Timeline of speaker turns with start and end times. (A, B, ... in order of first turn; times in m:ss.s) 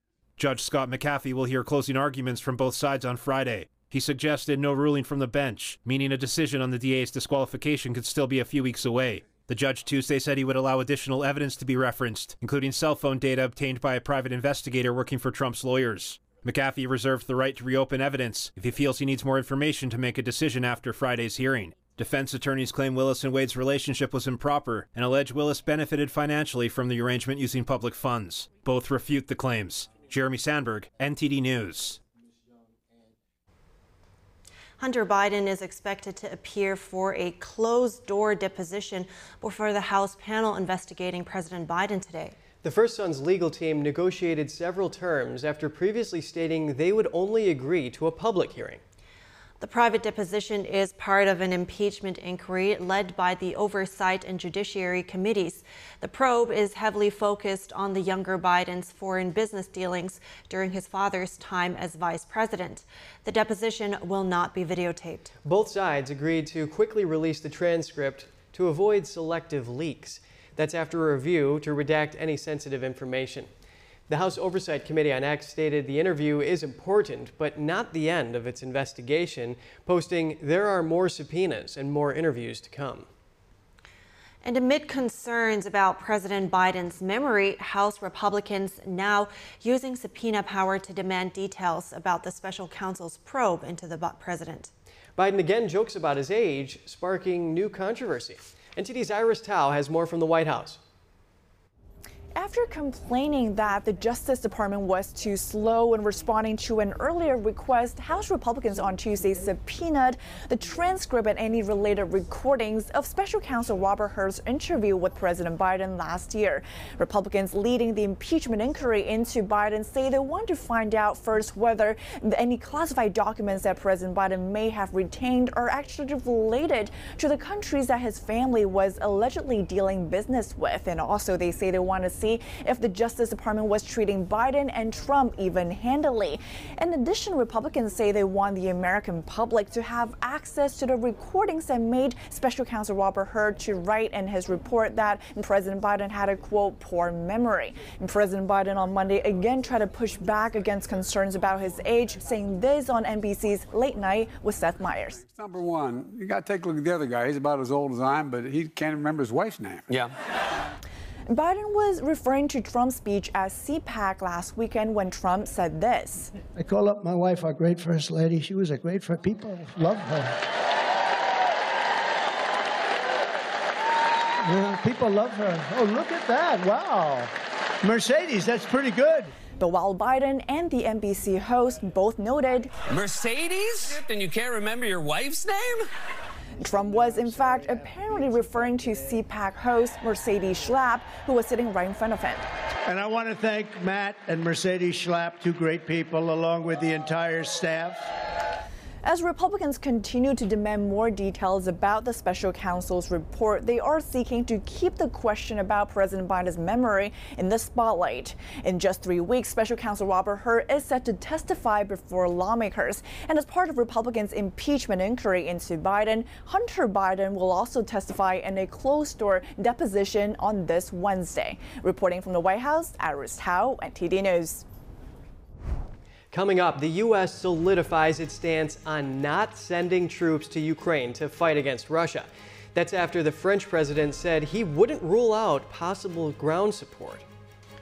0:00.4-0:32.0 A
0:34.8-0:42.4 B
0:42.6-0:48.8 C
0:49.6-1:05.3 B
1:05.4-1:13.5 C
1:14.1-1:23.1 C
1:24.4-1:34.7 B
1:35.2-1:40.8 C
1:42.4-2:35.2 D
2:35.2-2:40.1 E
2:41.3-2:46.3 D
2:46.5-2:50.4 F
2:54.4-2:59.3 F
2:59.6-3:02.7 D
3:03.0-3:05.8 G
3:06.6-3:12.4 D
3:12.8-3:18.0 F
3:19.0-3:44.6 D
3:46.3-3:57.2 C